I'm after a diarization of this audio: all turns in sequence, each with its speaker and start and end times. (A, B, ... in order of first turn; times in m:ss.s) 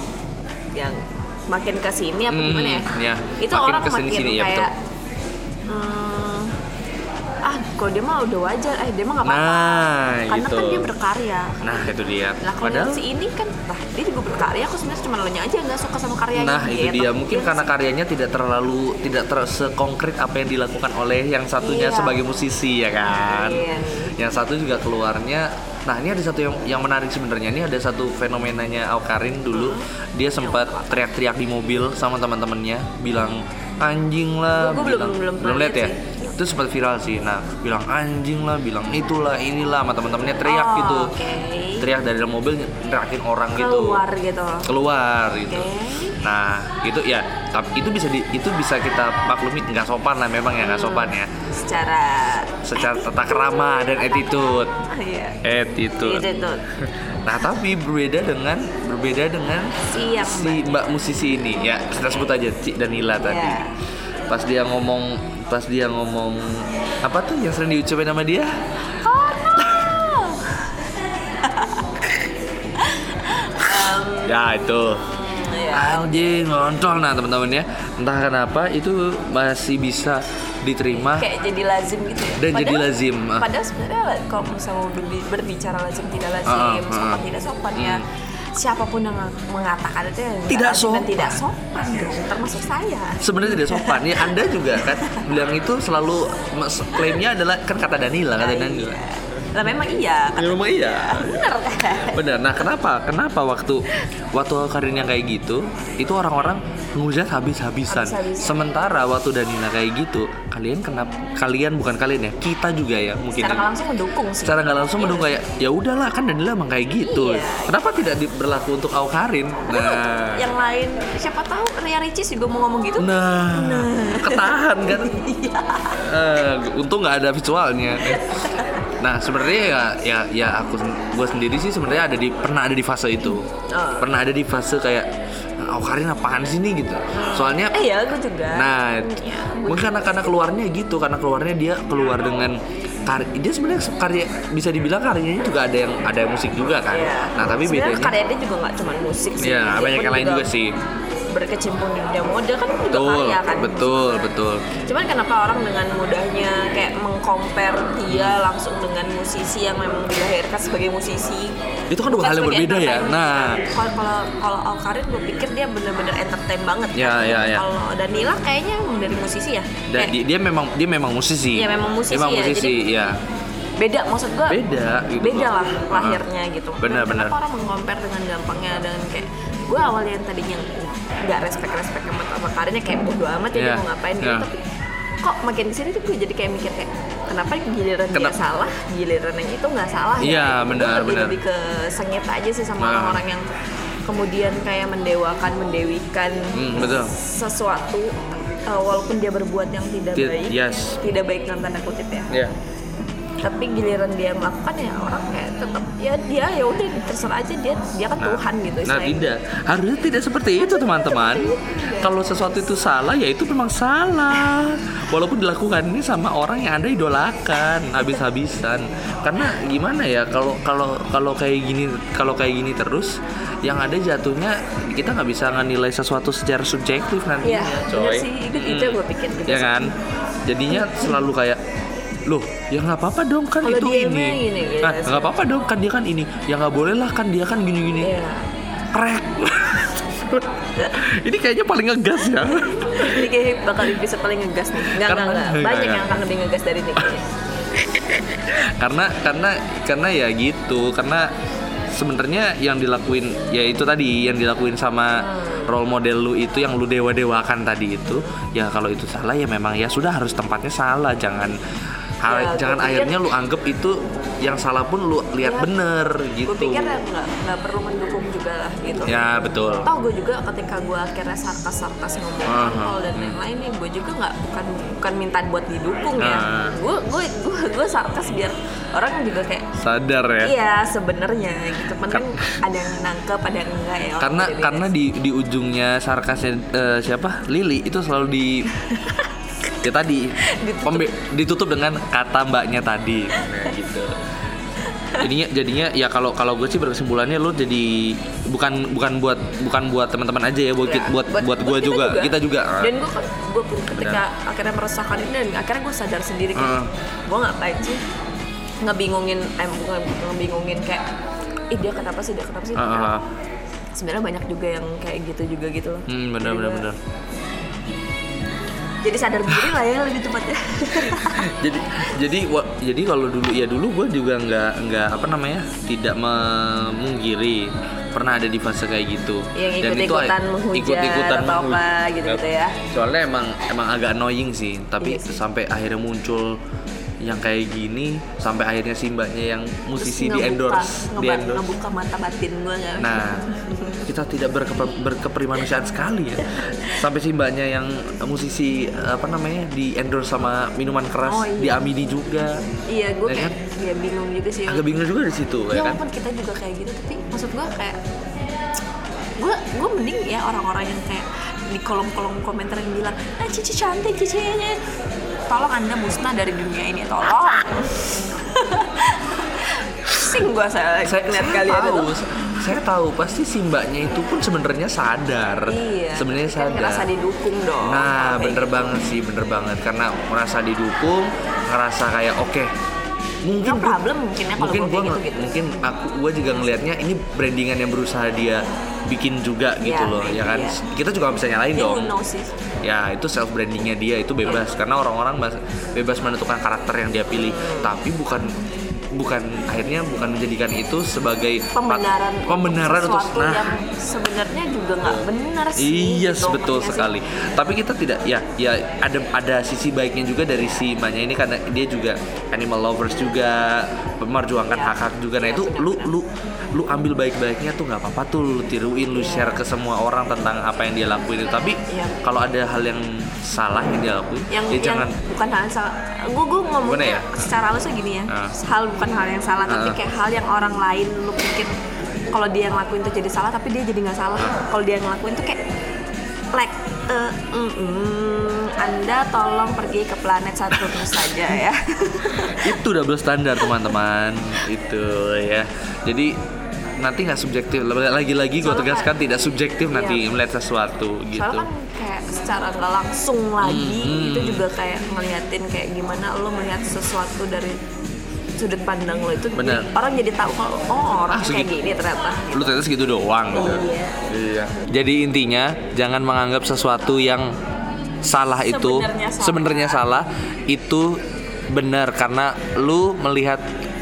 0:00.7-0:04.7 A
0:02.3-0:04.7 B
0:05.7-0:06.5 A
0:07.4-0:11.7 A
0:09.2-0:10.9 B
0:11.6-0:13.0 B
0:12.4-0:17.7 A
0:16.3-0:41.1 B
0:21.6-0:22.2 A
0:23.1-0:24.1 A
0:29.5-0:29.8 A
0:30.4-0:31.0 A
0:34.5-0:36.4 A
0:40.4-0:41.9 A
0:41.8-0:44.0 B
0:43.5-0:44.7 A
0:44.6-0:45.7 B
0:45.5-0:46.2 A
0:46.2-0:51.3 B
0:50.6-0:55.4 A
0:52.6-0:54.7 B
0:55.4-1:03.6 B
0:56.0-0:56.6 A
0:59.9-1:00.8 A
1:03.2-1:03.7 A
1:04.3-1:08.5 B
1:09.0-1:10.8 A
1:11.3-1:12.1 A
1:12.8-1:14.4 A
1:14.2-1:15.0 B
1:15.0-1:16.4 A
1:15.7-1:21.3 B
1:20.9-1:35.3 A
1:22.4-1:23.5 B
1:26.4-1:28.0 B
1:30.5-1:31.4 B
1:33.2-1:39.0 B
1:38.4-1:42.3 A
1:40.4-1:41.5 B
1:42.1-1:53.7 B
1:47.9-1:48.7 A
1:53.4-1:55.3 A
1:54.4-2:00.5 B
1:57.0-1:57.8 A
1:59.7-2:06.0 A
2:03.0-2:05.2 B
2:05.9-2:08.4 B
2:08.0-2:08.9 A
2:09.0-2:13.4 B
2:13.7-2:14.1 A
2:14.0-2:15.1 B
2:15.6-2:17.8 B
2:17.1-2:20.0 A
2:18.5-2:28.2 B
2:26.9-2:30.5 A
2:29.4-2:30.7 B
2:31.3-2:41.5 A
2:32.9-2:34.6 B
2:38.1-2:38.4 B
2:41.9-2:43.6 B
2:42.0-2:50.1 A
2:46.9-2:47.6 B
2:49.9-2:53.2 B
2:51.5-2:52.8 A
2:53.8-2:54.6 A
2:54.5-2:56.2 B
2:55.2-3:04.6 A
2:56.8-2:57.3 B
3:03.5-3:04.5 B
3:05.2-3:13.5 A
3:10.2-3:11.4 B
3:12.8-3:13.2 B
3:14.1-3:22.3 A
3:16.5-3:17.1 B
3:20.1-3:21.0 B
3:23.4-3:29.3 A
3:28.2-3:49.9 B
3:30.8-3:32.5 A
3:47.4-3:49.9 A
3:50.5-3:51.6 B
3:50.7-3:51.2 A
3:52.2-3:58.2 B
3:53.6-3:55.3 A
3:58.0-3:58.4 A
3:58.9-4:03.3 B
4:02.8-4:07.2 A
4:04.8-4:06.2 B
4:08.5-4:11.3 B
4:11.9-4:21.6 B
4:15.2-4:15.7 A
4:18.1-4:18.3 A
4:22.2-4:27.0 B
4:22.2-4:23.2 A
4:25.4-4:25.7 A
4:26.4-4:29.2 A
4:29.0-4:29.9 B
4:29.8-4:39.6 A
4:32.4-4:33.4 B
4:36.2-4:36.8 B
4:39.8-4:40.5 B
4:40.4-4:44.9 A
4:42.1-4:42.4 B
4:44.2-4:48.7 B
4:48.7-4:49.3 A
4:49.8-4:54.2 B
4:50.4-4:51.1 A
4:53.3-4:53.6 A
4:54.9-4:55.2 A
4:55.2-5:03.0 B
5:00.8-5:08.0 A
5:03.9-5:04.2 B
5:06.5-5:06.9 B
5:08.8-5:11.0 A
5:11.7-5:13.1 A
5:12.8-5:13.2 B
5:13.9-5:16.9 A
5:16.1-5:17.0 B
5:19.0-5:21.5 A
5:21.1-5:36.6 B
5:29.5-5:32.8 A
5:35.0-5:35.4 A
5:37.2-5:41.6 B
5:40.0-5:44.0 A
5:43.0-5:43.4 B
5:44.0-5:52.6 B
5:46.6-5:46.9 A
5:51.2-5:51.8 A
5:52.9-5:54.9 A
5:53.2-5:53.5 B
5:54.6-5:56.0 B
5:55.7-5:58.0 A
5:59.4-6:04.8 A
6:05.5-6:12.1 A
6:11.0-6:17.1 B
6:15.6-6:18.9 A
6:17.8-6:22.7 B
6:23.4-6:24.0 B
6:23.6-6:25.6 A
6:24.6-6:32.1 B
6:29.8-6:30.8 A
6:31.7-6:32.5 A
6:32.8-6:38.6 B
6:37.3-6:38.0 A
6:39.1-6:43.7 B
6:41.7-6:47.1 A
6:45.0-7:05.2 B
6:54.7-6:56.1 A
6:59.1-6:59.6 A
7:01.9-7:02.2 A
7:04.5-7:11.7 A
7:06.8-7:07.4 B
7:08.3-7:08.5 B
7:09.7-7:10.0 B
7:12.3-7:15.6 A
7:16.5-7:22.8 A
7:22.3-7:26.4 B
7:27.0-7:31.7 B
7:28.6-7:29.1 A
7:29.9-7:30.2 A
7:31.3-7:37.8 A
7:33.6-7:34.6 B
7:38.6-7:42.8 A
7:39.6-7:39.9 B
7:41.3-7:41.7 B
7:42.5-7:47.6 B
7:43.5-7:44.2 A
7:48.2-7:53.6 B
7:48.6-7:50.0 A